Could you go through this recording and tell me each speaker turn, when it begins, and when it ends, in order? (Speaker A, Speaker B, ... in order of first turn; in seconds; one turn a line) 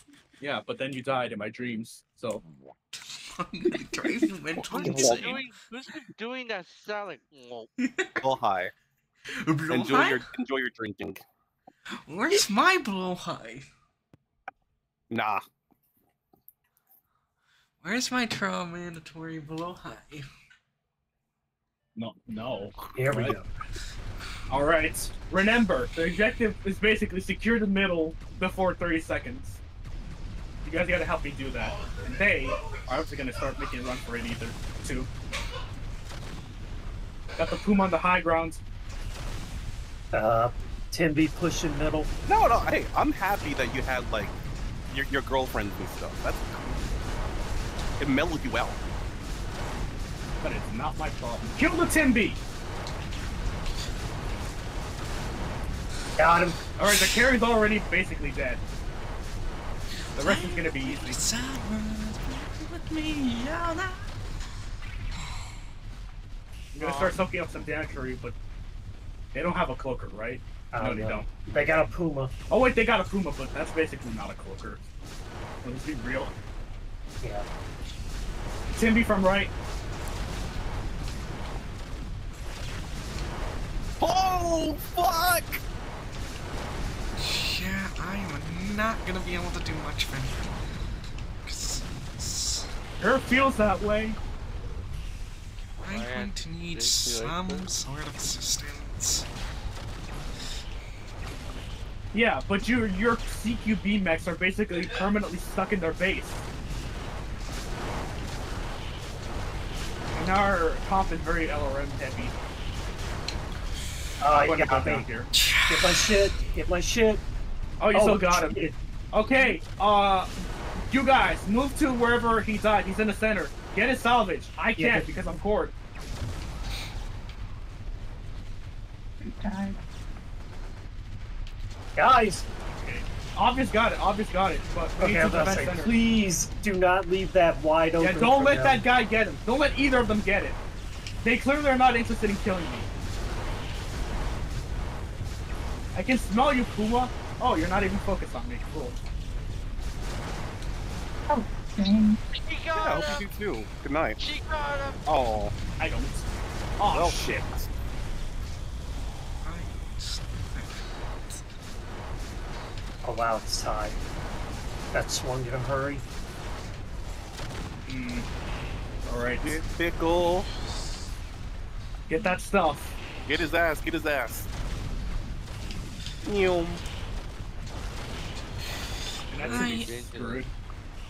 Speaker A: 0.4-2.4
Speaker B: 3.0-5.4
Speaker C: 4.7-7.7
Speaker D: 4.8-5.4
Speaker B: 7.8-8.1
Speaker D: 8.2-8.7
Speaker B: 9.4-10.2
Speaker D: 9.7-11.2
Speaker B: 12.1-13.7
Speaker D: 15.1-15.4
Speaker B: 17.8-20.3
Speaker A: 21.9-23.4
Speaker E: 22.9-23.5
Speaker A: 24.5-29.6
Speaker A: 30.6-35.1
Speaker A: 37.4-38.6
Speaker E: 40.1-42.1
Speaker D: 42.3-44.3
Speaker D: 44.9-46.8
Speaker D: 48.0-48.8
Speaker A: 50.4-52.4
Speaker E: 56.2-56.6
Speaker A: 56.8-58.6
Speaker B: 60.1-64.0
Speaker A: 60.1-61.2
Speaker B: 65.2-65.5
Speaker A: 66.7-68.4
Speaker C: 66.8-67.2
Speaker A: 69.3-71.3
Speaker E: 70.7-72.3
Speaker A: 72.5-74.8
Speaker A: 75.6-76.3
Speaker A: 78.7-79.5
Speaker D: 84.0-85.6
Speaker B: 87.2-90.5
Speaker B: 91.5-92.7
Speaker A: 93.0-94.2
Speaker B: 95.8-99.3
Speaker C: 95.9-97.5
Speaker A: 102.1-106.5
Speaker A: 110.1-112.4
Speaker E: 114.2-115.1
Speaker A: 114.3-115.3
Speaker B: 115.3-116.2
Speaker E: 115.7-117.2
Speaker A: 117.8-125.8
Speaker E: 117.9-118.8
Speaker E: 124.8-125.1
Speaker E: 132.0-132.4
Speaker A: 132.7-136.0
Speaker E: 135.0-138.8
Speaker A: 138.0-140.6
Speaker A: 141.2-142.9
Speaker A: 145.9-149.0
Speaker C: 152.4-153.3
Speaker D: 152.7-154.2
Speaker C: 154.2-155.0
Speaker D: 155.1-155.6
Speaker A: 155.8-156.3
Speaker A: 156.8-157.6
Speaker D: 156.9-157.7
Speaker B: 159.4-161.4
Speaker E: 163.0-164.0
Speaker E: 164.9-166.0
Speaker A: 167.8-168.3
Speaker A: 169.0-169.6
Speaker D: 169.4-170.5
Speaker A: 172.1-173.0
Speaker D: 173.3-174.5
Speaker D: 176.2-176.8
Speaker A: 179.3-180.5
Speaker C: 179.4-180.4
Speaker B: 179.4-180.0